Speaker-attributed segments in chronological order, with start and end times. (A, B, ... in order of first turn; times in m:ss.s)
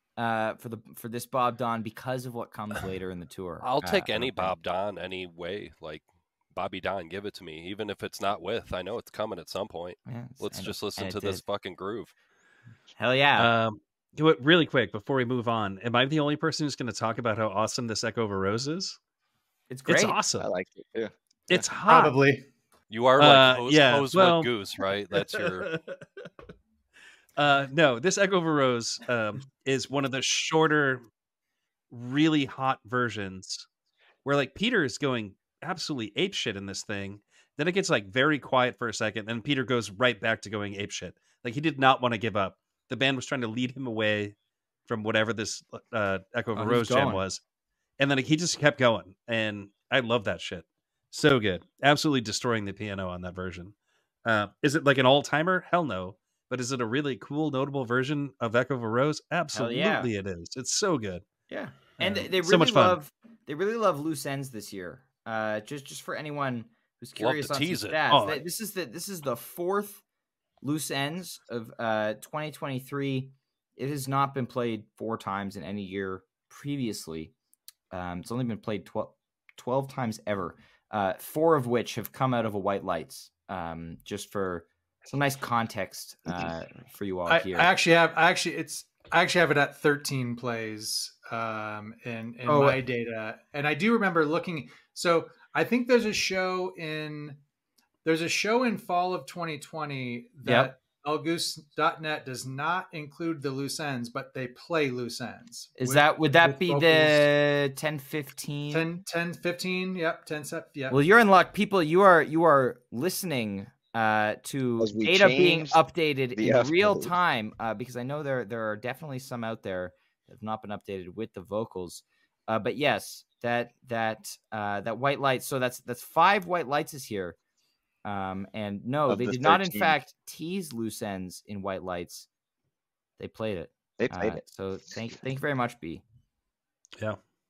0:00.2-0:04.6 A
0:03.6-0:12.1 B
0:10.1-0:11.4 A
0:13.0-0:13.5 A
0:13.4-0:19.0 C
0:19.7-0:20.2 A
0:19.9-0:20.5 C
0:20.4-0:21.6 D
0:21.5-0:22.2 C
0:21.9-0:22.4 E
0:22.9-0:25.7 B
0:23.2-0:24.5 C
0:25.2-0:26.0 C
0:27.4-0:31.0 C
0:31.9-0:33.7 C
0:34.2-0:44.4 C
0:44.9-0:47.4 C
0:46.6-0:47.2 A
0:48.0-0:53.7 C
0:54.2-1:01.2 C
0:59.5-1:00.1 A
1:01.5-1:10.0 A
1:02.0-1:03.0 C
1:07.2-1:08.0 B
1:08.1-1:08.4 C
1:10.6-1:17.3 A
1:17.9-1:27.7 A
1:27.3-1:37.4 E
1:32.5-1:32.8 A
1:38.0-1:47.3 E
1:40.4-1:40.7 A
1:45.8-1:48.9 A
1:48.7-1:51.0 E
1:50.9-2:07.4 A
1:54.8-1:55.8 D
1:56.4-1:57.1 D
2:08.0-2:12.3 A
2:09.1-2:10.0 D
2:13.2-2:16.0 A
2:14.0-2:14.4 D